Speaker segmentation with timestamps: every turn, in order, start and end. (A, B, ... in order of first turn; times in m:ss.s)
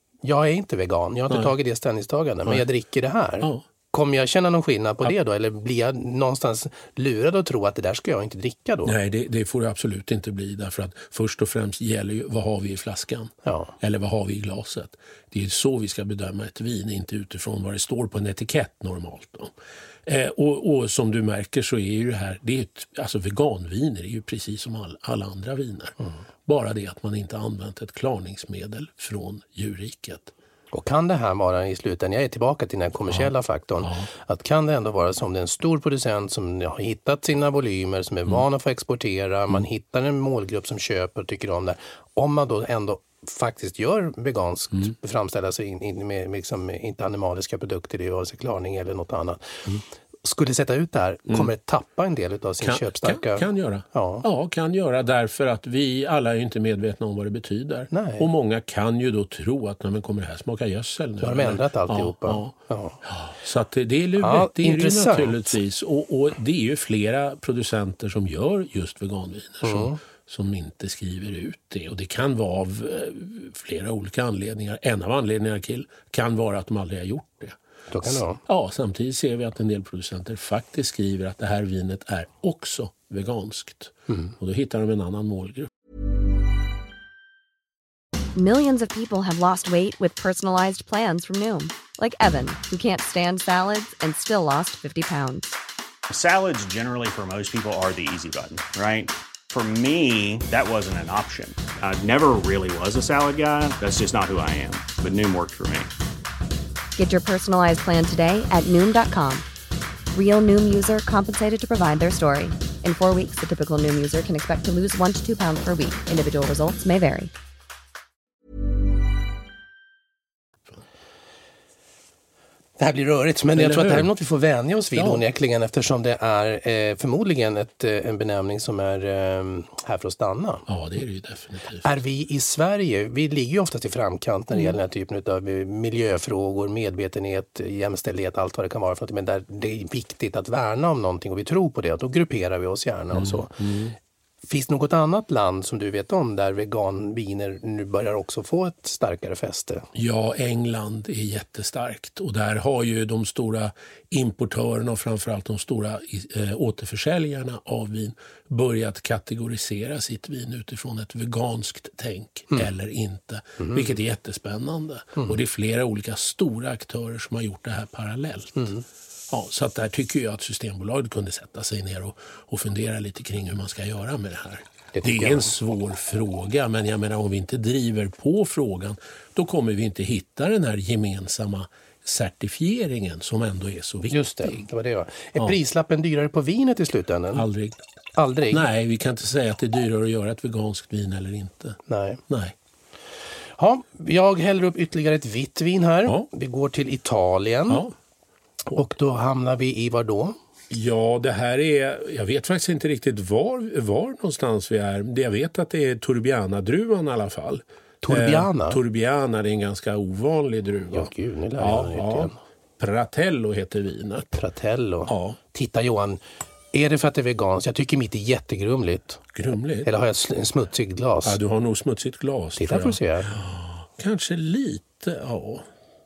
0:00.2-0:09.0 A
0:08.8-0:19.5 B
0:13.4-0:13.7 A
0:20.0-0:25.9 B
0:26.5-0:30.3 B
0:30.7-0:49.7 A
0:33.8-0:34.1 B
0:50.2-0:54.2 A
0:52.6-1:25.7 B
0:57.9-0:58.3 A
1:01.2-1:03.0 A
1:04.2-1:05.6 A
1:09.6-1:10.0 A
1:17.9-1:18.4 A
1:28.3-1:35.5 C
1:36.1-1:45.9 D
1:47.0-1:49.4 C
1:50.1-1:57.3 C
2:02.8-2:10.6 A
2:03.5-2:04.1 B
2:04.9-2:05.2 B
2:10.7-2:11.8 B
2:11.8-2:23.6 A
2:23.1-2:23.9 B
2:24.4-2:29.9 A
2:29.9-2:48.7 B
2:48.6-2:48.8 A
2:49.3-3:04.6 B
2:54.9-2:55.5 A
3:04.1-3:07.4 A
3:07.3-3:07.8 B
3:08.2-3:08.6 A
3:08.5-3:12.5 B
3:11.9-3:12.2 A
3:13.6-3:17.8 A
3:18.7-3:20.4 A
3:20.7-3:34.4 B
3:28.0-3:28.8 A
3:30.9-3:32.4 A
3:34.3-3:36.2 A
3:35.1-3:35.4 B
3:36.7-3:39.2 A
3:39.3-3:39.9 B
3:39.8-3:41.4 A
3:41.2-3:45.6 B
3:42.6-3:43.4 A